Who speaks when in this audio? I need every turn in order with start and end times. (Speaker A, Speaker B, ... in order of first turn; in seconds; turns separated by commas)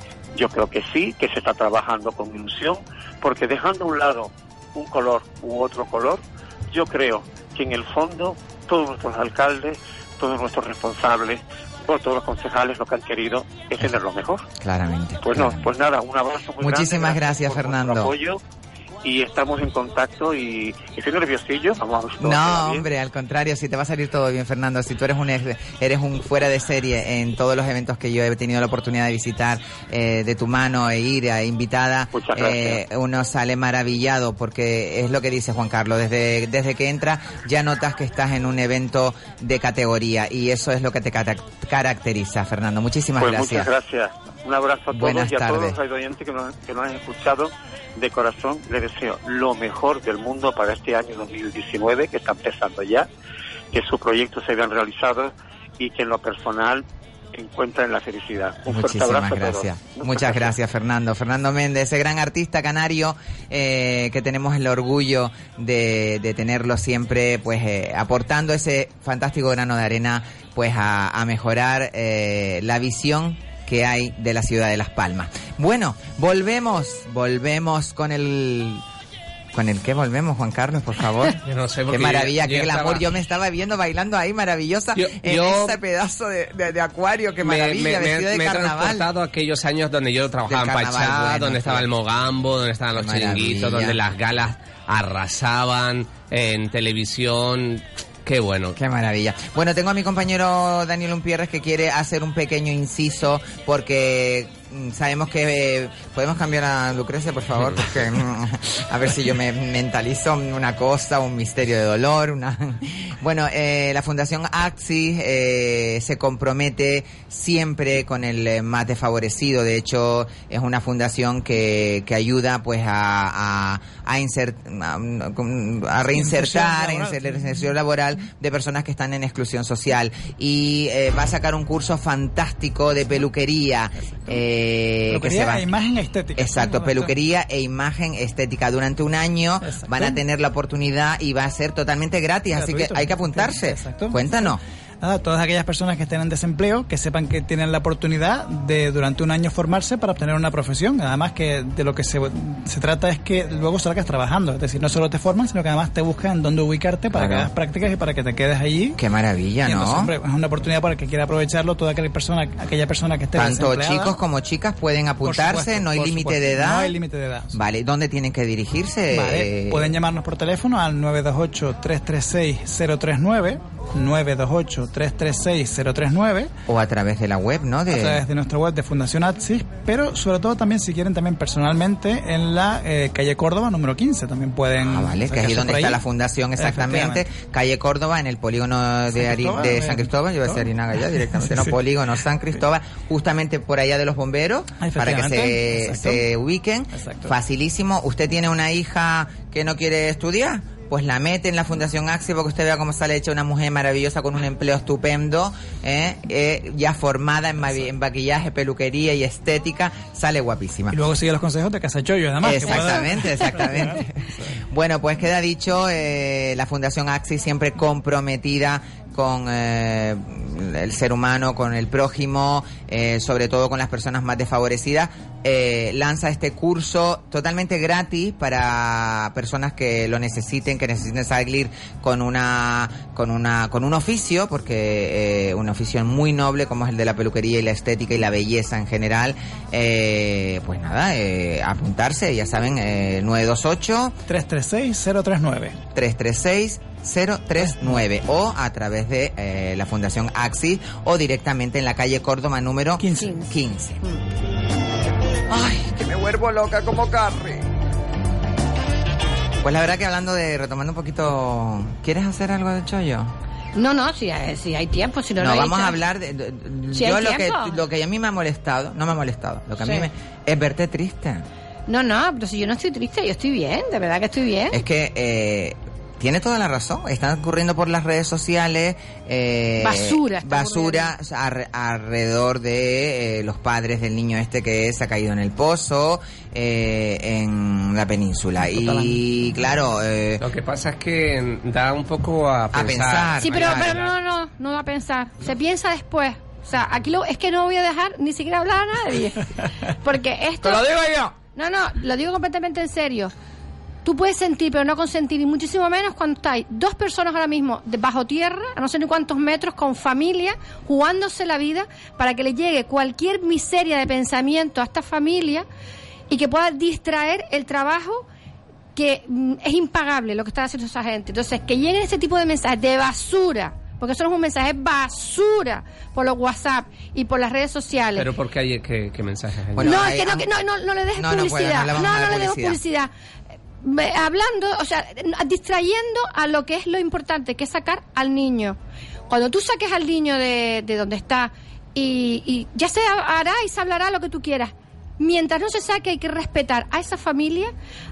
Speaker A: 0.3-14.4, Speaker B: 14.6-15.7, Speaker A: 15.2-18.4, Speaker B: 16.6-18.1, Speaker A: 19.0-22.8, Speaker B: 22.2-43.7, Speaker A: 32.1-32.8, Speaker A: 43.2-53.1, Speaker B: 44.9-45.8, Speaker A: 53.7-60.5, Speaker B: 58.7-78.8, Speaker B: 79.5-81.3, Speaker C: 81.4-83.0, Speaker B: 81.9-89.0, Speaker C: 85.0-85.8, Speaker C: 87.4-98.8, Speaker B: 90.5-91.9, Speaker B: 92.9-94.0, Speaker B: 98.8-135.7, Speaker D: 126.1-127.6, Speaker D: 135.1-137.1, Speaker B: 136.4-144.6, Speaker D: 139.6-140.2, Speaker D: 142.5-144.5, Speaker D: 145.0-159.0, Speaker B: 157.1-157.5, Speaker B: 159.0-160.1, Speaker D: 159.7-164.1, Speaker B: 163.3-166.9, Speaker D: 165.2-167.5, Speaker B: 167.5-169.9, Speaker D: 169.1-176.5, Speaker B: 176.7-178.2, Speaker D: 177.9-186.0, Speaker B: 184.8-211.0, Speaker D: 186.6-187.2, Speaker D: 189.2-190.7, Speaker D: 191.3-191.8, Speaker D: 194.8-196.2, Speaker D: 196.9-197.3, Speaker D: 210.9-214.0, Speaker B: 212.4-244.2, Speaker D: 244.3-245.8, Speaker B: 245.9-254.0, Speaker D: 253.0-253.3, Speaker E: 253.2-253.5, Speaker B: 255.5-257.6, Speaker B: 259.6-263.3, Speaker E: 263.8-266.0, Speaker B: 265.4-271.4, Speaker E: 266.9-267.8, Speaker E: 269.8-270.1, Speaker E: 271.9-274.8, Speaker B: 274.7-290.4, Speaker E: 279.8-281.1, Speaker D: 288.8-289.1, Speaker C: 290.4-294.1, Speaker B: 292.7-294.0, Speaker E: 293.4-299.4, Speaker E: 300.0-300.9, Speaker B: 300.6-301.3, Speaker E: 301.5-303.3, Speaker E: 304.0-315.6, Speaker E: 316.3-318.2, Speaker E: 318.9-328.3, Speaker C: 328.1-329.9, Speaker B: 329.8-330.5, Speaker E: 329.8-333.1, Speaker B: 331.1-332.8, Speaker E: 333.8-338.8, Speaker E: 339.3-347.7